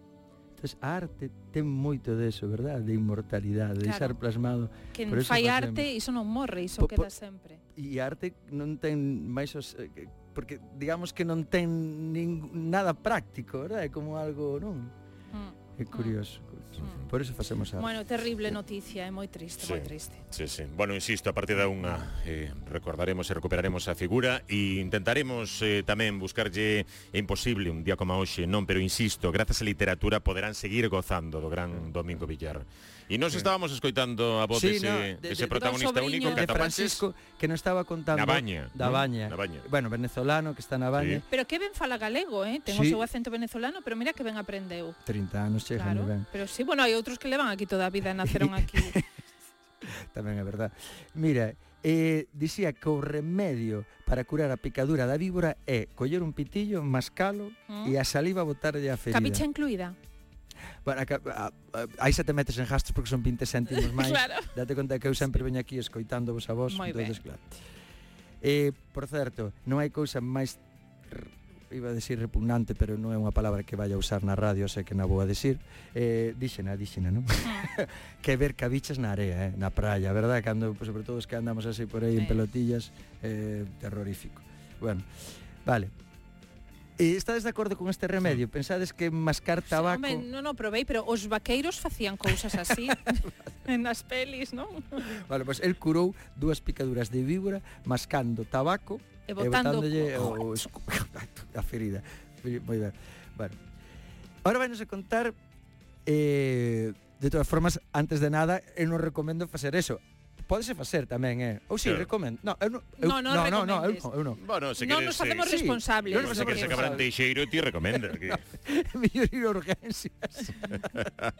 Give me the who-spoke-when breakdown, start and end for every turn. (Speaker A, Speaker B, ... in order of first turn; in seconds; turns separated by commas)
Speaker A: 0.6-5.9, Speaker B: 3.8-4.2, Speaker B: 4.9-7.6, Speaker A: 6.8-7.1, Speaker A: 7.8-14.9, Speaker B: 15.3-16.1, Speaker A: 15.8-17.9, Speaker B: 17.8-20.2, Speaker C: 19.6-37.0, Speaker A: 34.5-41.3, Speaker B: 35.7-36.5, Speaker C: 38.1-39.7, Speaker C: 41.0-41.2, Speaker B: 41.3-45.0, Speaker A: 42.7-43.0, Speaker A: 45.0-46.3, Speaker B: 45.7-49.0, Speaker A: 48.2-49.0, Speaker A: 49.8-59.4, Speaker B: 57.7-58.0, Speaker B: 59.1-60.0, Speaker A: 60.8-67.6, Speaker B: 63.8-64.5, Speaker B: 66.7-67.2, Speaker A: 68.4-85.1, Speaker B: 82.2-82.5, Speaker A: 85.7-85.9, Speaker A: 87.0-90.3, Speaker B: 89.6-95.1, Speaker A: 95.1-103.6, Speaker B: 99.3-100.6, Speaker A: 104.4-105.3, Speaker A: 106.1-114.4, Speaker B: 113.0-114.1, Speaker C: 114.4-115.6, Speaker B: 114.8-117.0, Speaker A: 115.4-117.1, Speaker C: 116.1-118.4, Speaker A: 117.9-121.1